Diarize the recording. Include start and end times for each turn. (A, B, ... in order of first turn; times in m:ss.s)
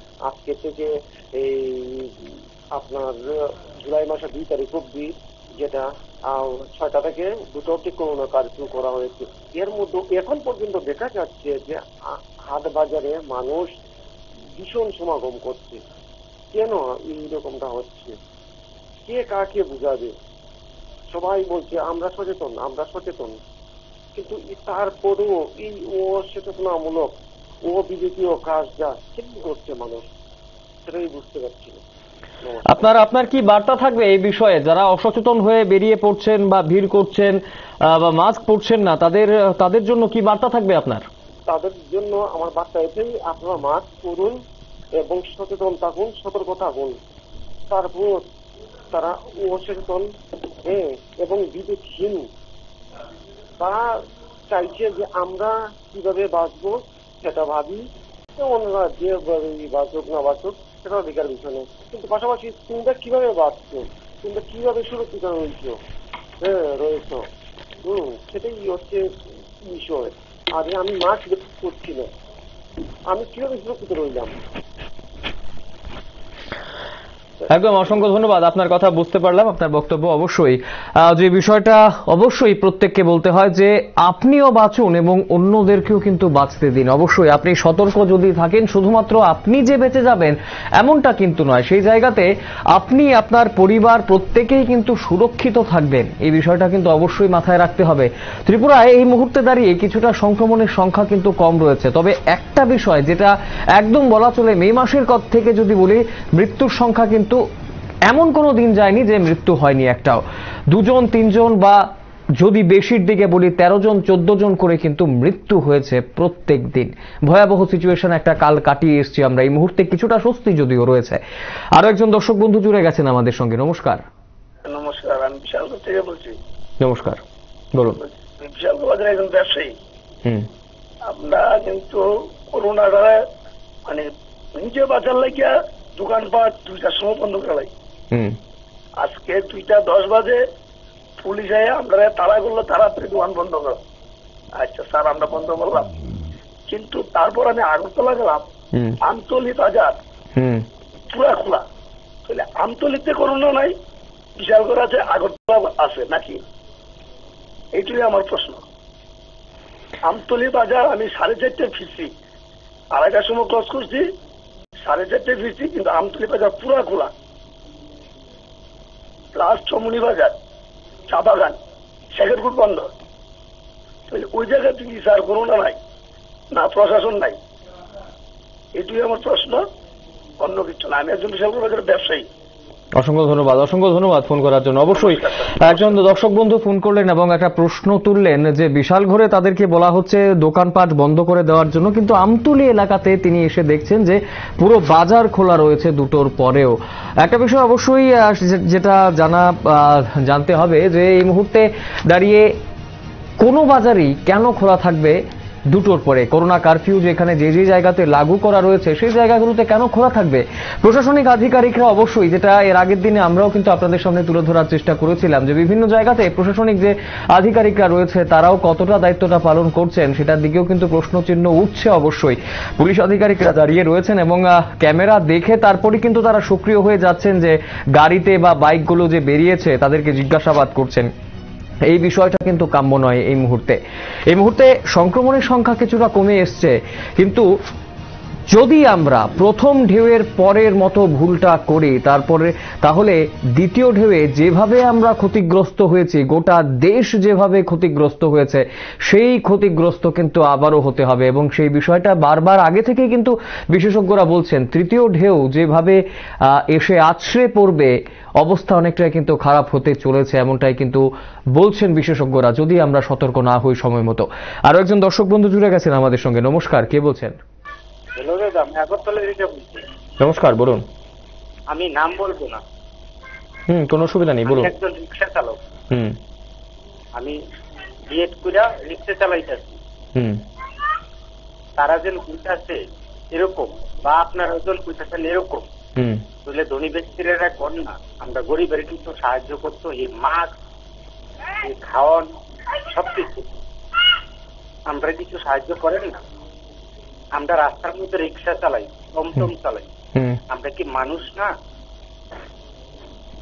0:00.2-0:13.7 A
0:14.6-0:15.8 A
0:16.5-0:18.2 A
0:19.0-0:20.2 A
0:21.1-0:23.4 A
0:24.1-0:30.1 A
0:30.8-0:31.8 A
0:32.4-0:32.8 A
0:32.7-0:41.0 B
0:41.5-0:44.4 A
0:44.9-0:47.0 A
0:47.7-0:48.3 A
0:48.9-0:50.1 A
0:50.6-0:52.3 A
0:53.6-1:05.8 A
1:06.4-1:07.3 A
1:07.8-1:09.1 A
1:09.6-1:12.1 A
1:13.1-1:14.4 A
1:17.5-1:47.4 B
1:48.1-1:51.8 B
1:52.4-2:01.2 B
2:01.7-2:04.0 B
2:04.6-2:06.4 C
2:06.8-2:07.2 B
2:07.7-2:08.0 B
2:08.0-2:09.7 C
2:11.1-2:13.2 C
2:13.9-2:17.7 C
2:18.1-2:18.4 B
2:19.0-2:20.4 C
2:21.2-2:23.8 C
2:24.6-2:25.9 C
2:26.7-2:28.4 C
2:28.7-2:29.0 B
2:29.0-2:30.0 C
2:30.4-2:30.6 B
2:31.1-2:31.6 C
2:32.2-2:33.7 C
2:34.4-2:36.4 C
2:37.7-2:38.6 C
2:40.0-2:42.1 C
2:42.9-2:44.1 C
2:44.8-2:47.1 C
2:49.3-2:50.4 C
2:51.1-2:51.6 C
2:52.1-2:52.9 C
2:54.1-2:55.8 C
2:56.5-2:57.4 C
2:58.8-2:59.6 C
3:00.4-3:02.3 C
3:03.0-3:22.6 B
3:04.9-3:05.9 C
3:23.4-3:51.1 B
3:51.8-3:53.8 B
3:54.3-3:57.4 B
3:58.5-4:27.4 B
4:28.1-4:29.8 D
4:30.2-4:30.8 B
4:31.7-4:32.6 D
4:33.7-4:34.7 B
4:34.4-4:35.6 D
4:35.9-4:36.2 B
4:38.1-4:39.8 D
4:40.1-4:40.4 B
4:41.8-4:45.7 D
4:46.0-4:46.2 B
4:46.4-4:50.5 D
4:51.6-4:52.3 D
4:52.8-4:53.4 D
4:54.9-4:56.2 D
4:57.3-4:59.9 D
5:00.5-5:01.5 D